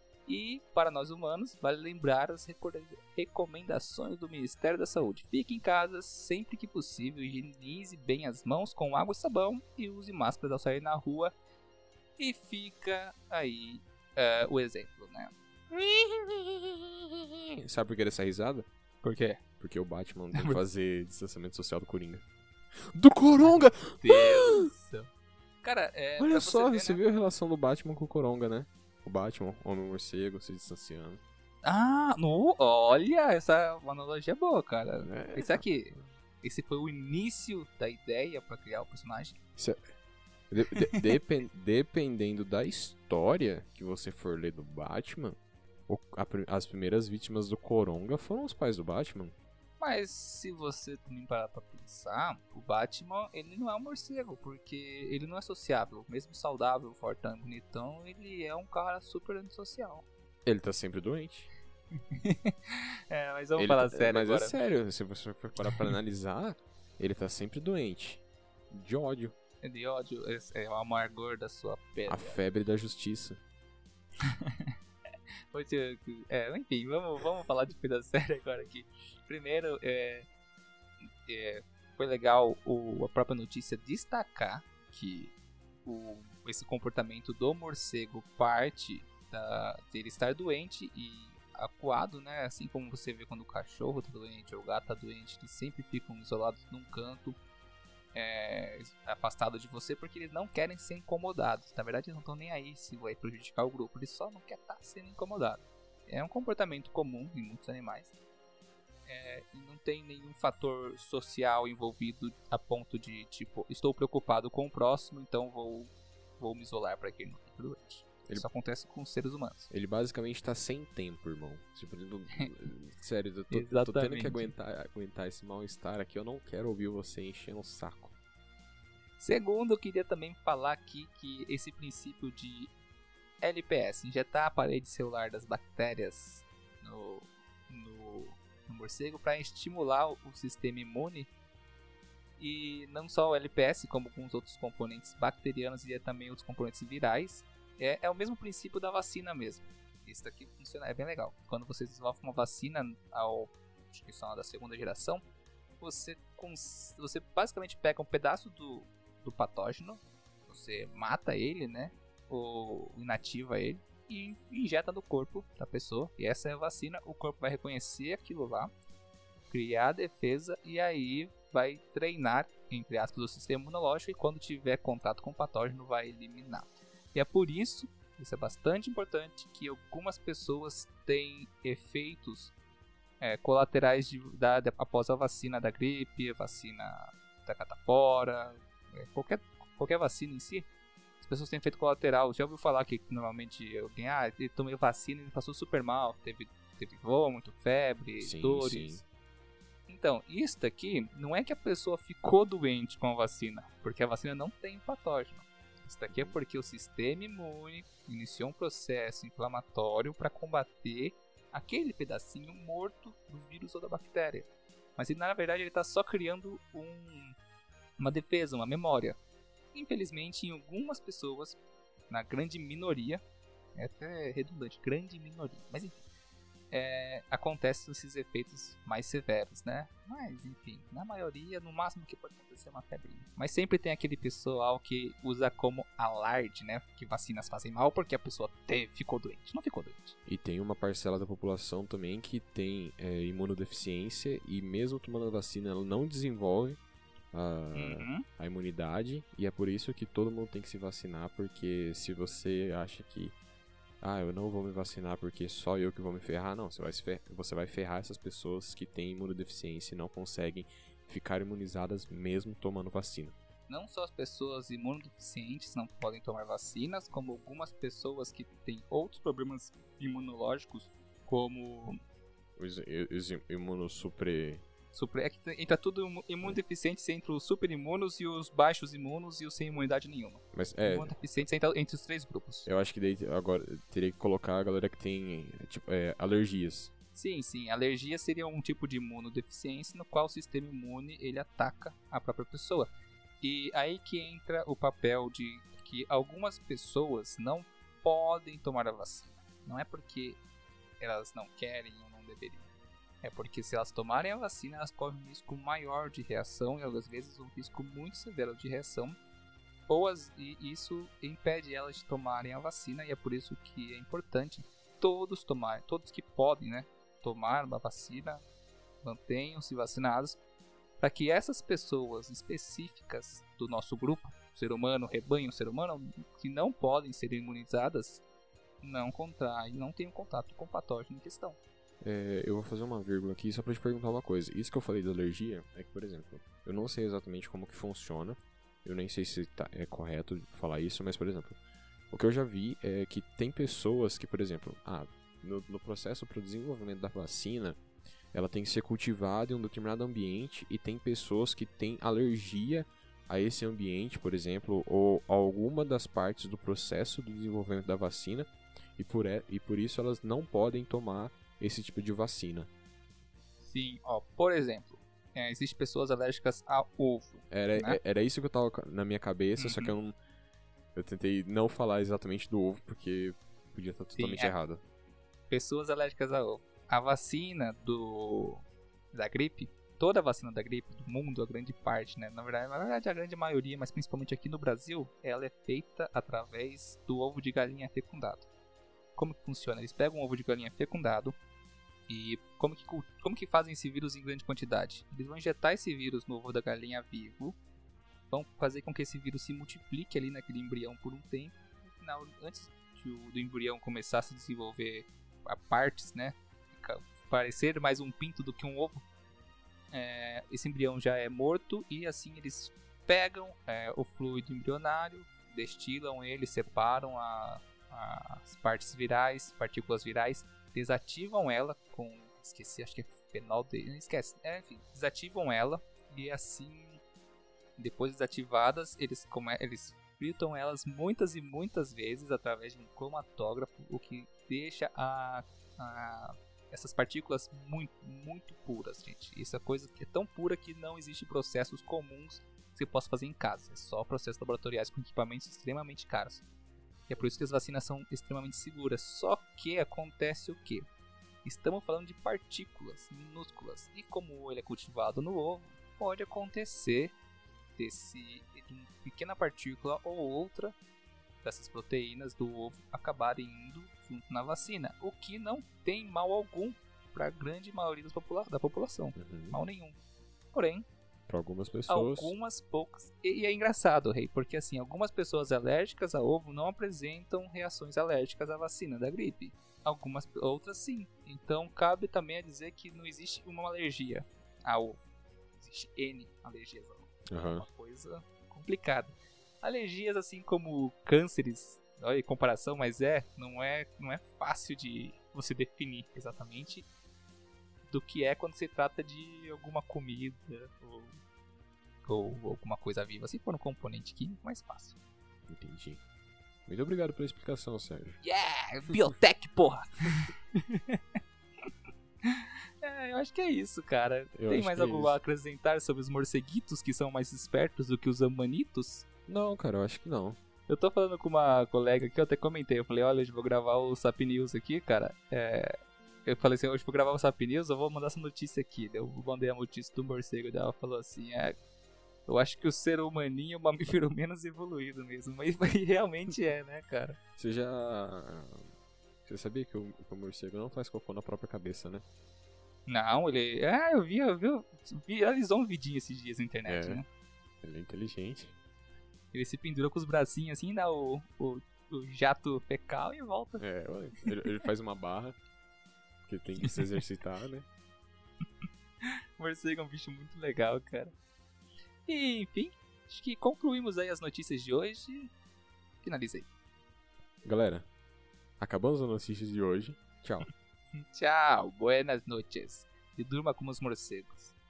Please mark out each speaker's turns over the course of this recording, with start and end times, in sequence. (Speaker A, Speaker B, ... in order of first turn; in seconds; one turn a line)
Speaker A: 0.3-11.3
Speaker A: 12.2-15.3
Speaker B: 15.7-18.7
Speaker A: 19.0-19.4
Speaker B: 19.6-22.2
Speaker A: 20.3-20.6
Speaker B: 22.8-24.7
Speaker A: 23.4-25.1
Speaker A: 25.6-27.0
Speaker B: 26.2-31.2
Speaker A: 31.6-39.4
Speaker B: 35.0-36.0
Speaker B: 39.6-39.8
Speaker B: 40.5-49.4
Speaker A: 49.8-60.1
Speaker B: 60.5-61.5
Speaker A: 62.1-64.7
Speaker B: 63.6-69.3
Speaker A: 69.6-72.4
Speaker B: 72.1-73.4
Speaker A: 74.2-74.7
Speaker A: 75.5-80.3
Speaker A: 81.3-97.4
Speaker A: 98.1-108.1
Speaker A: 109.1-119.7
Speaker B: 119.7-128.1
Speaker A: 123.5-124.5
Speaker A: 129.2-132.7
Speaker A: 133.4-141.3
Speaker A: 142.4-155.2
Speaker A: 155.8-168.7
Speaker A: 169.5-182.5
Speaker A: 183.2-190.7
Speaker A: 191.2-199.0
Speaker B: 198.2-199.0
Speaker A: 199.9-217.4
Speaker B: 206.1-206.4
Speaker A: 218.0-219.2
Speaker A: 219.7-221.6
Speaker A: 222.1-223.2
Speaker A: 223.8-226.0
Speaker A: 226.7-240.2
Speaker B: 240.3-246.8
Speaker B: 247.3-253.3
Speaker A: 247.8-248.2
Speaker B: 254.0-263.4
Speaker A: 263.7-272.0
Speaker B: 272.6-274.6
Speaker A: 274.9-282.7
Speaker B: 280.5-281.1
Speaker B: 282.7-286.9
Speaker A: 287.1-300.4
Speaker A: 301.0-302.7
Speaker A: 303.2-309.2
Speaker A: 309.9-318.4
Speaker A: 319.0-320.4
Speaker A: 321.0-328.2
Speaker A: 328.8-331.6
Speaker B: 332.0-341.6
Speaker B: 342.1-347.8
Speaker B: 348.3-362.7
Speaker A: 363.6-368.0
Speaker B: 367.5-370.2
Speaker A: 369.6-369.9
Speaker B: 370.9-374.8
Speaker A: 374.2-374.6
Speaker A: 375.5-388.5
Speaker A: 389.2-391.4
Speaker A: 392.1-397.6
Speaker A: 398.3-409.0
Speaker A: 409.9-427.0
Speaker A: 427.8-446.4
Speaker A: 447.1-450.9
Speaker A: 451.4-457.1
Speaker A: 457.8-460.8
Speaker A: 461.4-470.0
Speaker B: 469.2-469.6
Speaker A: 470.5-470.9
Speaker B: 471.3-472.3
Speaker A: 471.9-485.1
Speaker A: 485.6-496.9
Speaker B: 487.3-487.7
Speaker A: 497.9-501.2
Speaker A: 502.1-505.0
Speaker B: 505.5-506.0
Speaker B: 506.7-508.2
Speaker A: 508.2-511.0
Speaker A: 512.2-519.0
Speaker B: 514.3-515.2
Speaker B: 519.3-520.4
Speaker A: 520.7-525.7
Speaker A: 526.2-531.6
Speaker A: 532.3-537.2
Speaker B: 537.4-538.7
Speaker B: 539.3-542.0
Speaker A: 542.9-547.0
Speaker B: 546.7-547.0
Speaker B: 547.6-548.6
Speaker A: 549.3-553.6
Speaker B: 553.6-555.4
Speaker B: 556.3-557.7
Speaker A: 559.0-561.1
Speaker A: 562.1-565.3
Speaker A: 566.0-566.5
Speaker B: 567.4-567.9
Speaker B: 568.6-570.5
Speaker A: 571.0-574.5